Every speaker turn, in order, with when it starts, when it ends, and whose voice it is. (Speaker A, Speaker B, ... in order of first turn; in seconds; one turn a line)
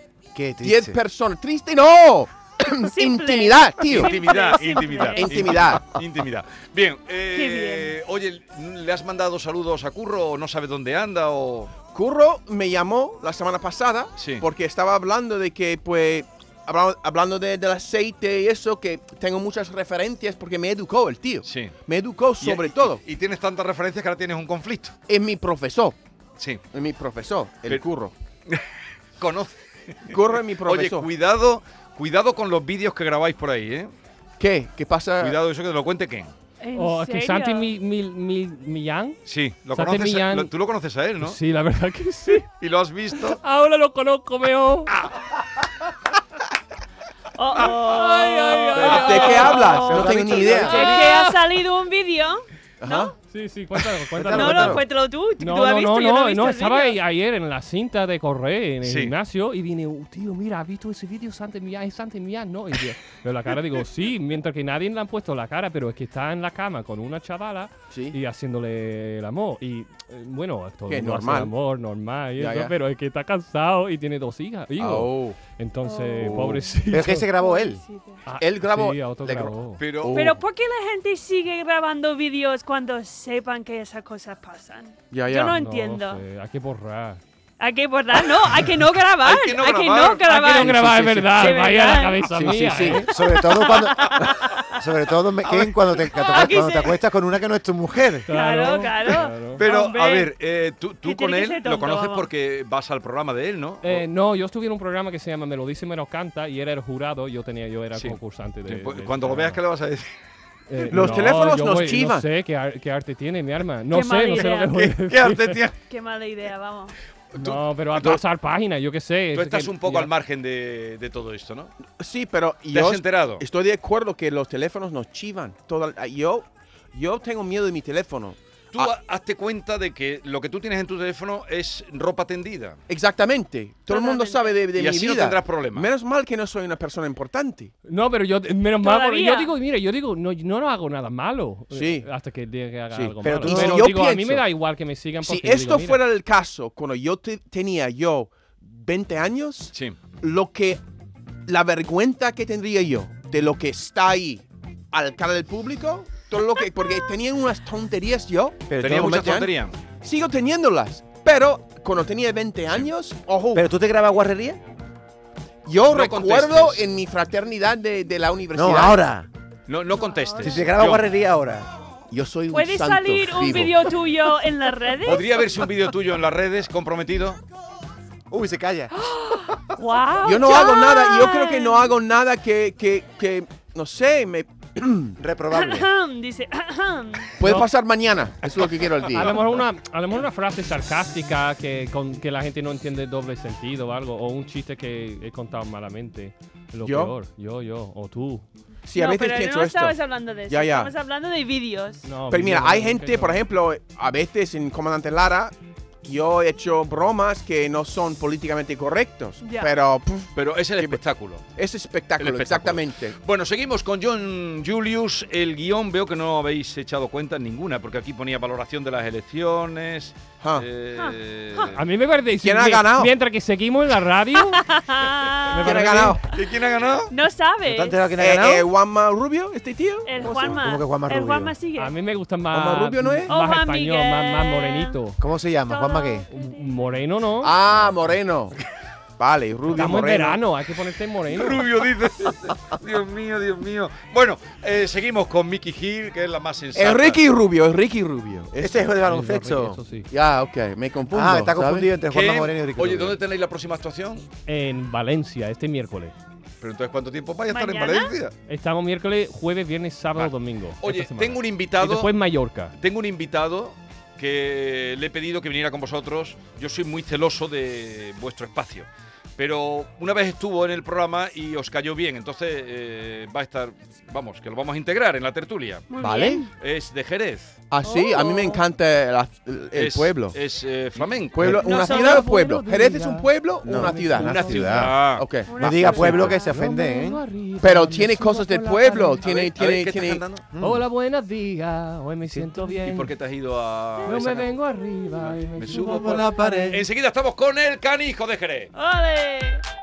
Speaker A: 0.3-1.0
Speaker B: 0.6-4.2
Speaker C: 2.9-5.6
Speaker D: 3.9-11.7
Speaker B: 5.2-6.0
Speaker C: 7.3-7.9
Speaker B: 11.9-23.0
Speaker D: 14.2-14.4
Speaker D: 21.4-21.7
Speaker D: 22.4-24.9
Speaker B: 25.1-26.0
Speaker B: 26.7-28.1
Speaker D: 28.5-33.9
Speaker B: 30.1-31.1
Speaker B: 34.4-35.4
Speaker D: 35.2-36.3
Speaker C: 36.6-37.7
Speaker E: 36.7-39.2
Speaker D: 39.2-41.4
Speaker E: 39.7-40.5
Speaker E: 41.2-42.5
Speaker D: 42.6-43.4
Speaker E: 43.2-44.9
Speaker C: 47.4-53.1
Speaker E: 47.6-49.8
Speaker D: 48.8-49.6
Speaker B: 48.8-51.0
Speaker A: 49.7-51.1
Speaker E: 50.7-51.3
Speaker B: 52.8-53.1
Speaker E: 53.3-54.9
Speaker A: 54.1-54.8
Speaker C: 54.3-57.0
Speaker E: 55.4-77.3
Speaker D: 58.8-59.1
Speaker B: 67.9-68.2
Speaker B: 70.9-71.5
Speaker B: 72.4-72.7
Speaker B: 74.8-75.4
Speaker C: 75.8-76.4
Speaker B: 76.2-76.6
Speaker A: 76.9-77.8
Speaker C: 77.4-78.2
Speaker E: 78.2-79.8
Speaker B: 78.4-80.4
Speaker D: 79.8-80.3
Speaker C: 80.1-86.2
Speaker B: 85.1-85.6
Speaker E: 85.5-87.2
Speaker C: 87.6-92.5
Speaker D: 89.2-90.2
Speaker E: 90.2-93.1
Speaker B: 90.6-91.4
Speaker B: 92.3-93.2
Speaker A: 93.1-98.3
Speaker C: 93.2-94.8
Speaker D: 93.8-94.1
Speaker C: 95.5-97.0
Speaker E: 98.3-99.6
Speaker C: 98.3-100.3
Speaker D: 99.5-104.0
Speaker C: 101.0-102.3
Speaker E: 103.8-109.6
Speaker D: 107.9-110.1
Speaker E: 110.7-115.6
Speaker B: 110.9-112.3
Speaker C: 113.9-114.9
Speaker D: 114.4-115.8
Speaker C: 115.9-117.0
Speaker D: 117.3-118.2
Speaker E: 117.3-120.1
Speaker D: 119.3-121.7
Speaker B: 122.0-128.9
Speaker D: 122.7-123.4
Speaker D: 128.7-132.8
Speaker B: 132.9-137.7
Speaker C: 133.9-134.6
Speaker D: 134.7-135.9
Speaker E: 137.8-146.0
Speaker C: 138.8-139.5
Speaker B: 141.7-142.1
Speaker B: 142.9-144.5
Speaker A: 143.2-144.0
Speaker B: 145.2-150.8
Speaker B: 151.4-163.7
Speaker A: 158.7-159.2
Speaker D: 158.8-159.8
Speaker A: 163.5-164.6
Speaker B: 165.6-169.0
Speaker D: 165.8-166.8
Speaker A: 168.5-169.3
Speaker D: 169.7-171.1
Speaker C: 170.0-170.6
Speaker A: 170.4-171.7
Speaker B: 172.1-173.9
Speaker C: 172.5-175.2
Speaker D: 175.0-177.4
Speaker A: 178.3-178.9
Speaker C: 178.9-181.9
Speaker B: 180.2-185.2
Speaker A: 185.2-185.9
Speaker C: 185.5-187.4
Speaker B: 187.4-189.4
Speaker E: 187.4-187.7
Speaker E: 189.1-198.4
Speaker B: 196.8-197.1
Speaker B: 198.8-200.9
Speaker C: 198.9-202.2
Speaker E: 202.0-203.4
Speaker B: 202.3-211.0
Speaker C: 209.4-209.7
Speaker D: 210.3-211.4
Speaker B: 211.6-213.2
Speaker D: 212.2-221.8
Speaker C: 220.9-221.7
Speaker E: 221.7-224.7
Speaker B: 222.4-223.1
Speaker C: 224.3-225.8
Speaker E: 225.4-226.2
Speaker B: 225.6-226.2
Speaker D: 226.3-227.1
Speaker C: 227.1-228.0
Speaker A: 227.6-228.7
Speaker B: 228.2-230.6
Speaker C: 230.0-231.9
Speaker A: 230.3-231.5
Speaker E: 231.8-235.2
Speaker B: 232.5-233.3
Speaker C: 233.3-234.9
Speaker A: 235.2-236.3
Speaker C: 235.7-236.3
Speaker E: 236.3-237.5
Speaker B: 237.4-238.5
Speaker B: 239.2-240.4
Speaker E: 239.7-241.6
Speaker D: 241.3-247.2
Speaker B: 246.7-248.9
Speaker A: 248.6-249.8
Speaker E: 249.0-250.1
Speaker B: 250.1-251.9
Speaker A: 251.1-253.2
Speaker D: 252.1-254.3
Speaker E: 254.5-256.1
Speaker D: 256.6-258.3
Speaker C: 257.5-258.1
Speaker E: 258.5-262.7
Speaker D: 260.1-262.1
Speaker D: 262.7-275.9
Speaker C: 275.9-276.5
Speaker B: 276.0-276.4
Speaker D: 276.6-277.6
Speaker B: 277.7-280.4
Speaker C: 277.8-278.6
Speaker D: 279.7-281.4
Speaker B: 281.0-285.5
Speaker E: 281.4-284.8
Speaker C: 281.6-282.3
Speaker A: 283.6-285.0
Speaker D: 284.2-285.3
Speaker C: 285.4-286.6
Speaker A: 285.6-287.2
Speaker D: 285.9-286.3
Speaker E: 286.3-289.2
Speaker B: 287.6-290.2
Speaker D: 289.2-290.4
Speaker A: 290.5-290.8
Speaker E: 290.6-293.1
Speaker D: 292.9-294.5
Speaker E: 294.0-296.7
Speaker D: 295.2-298.7
Speaker A: 295.7-296.8
Speaker C: 298.7-299.6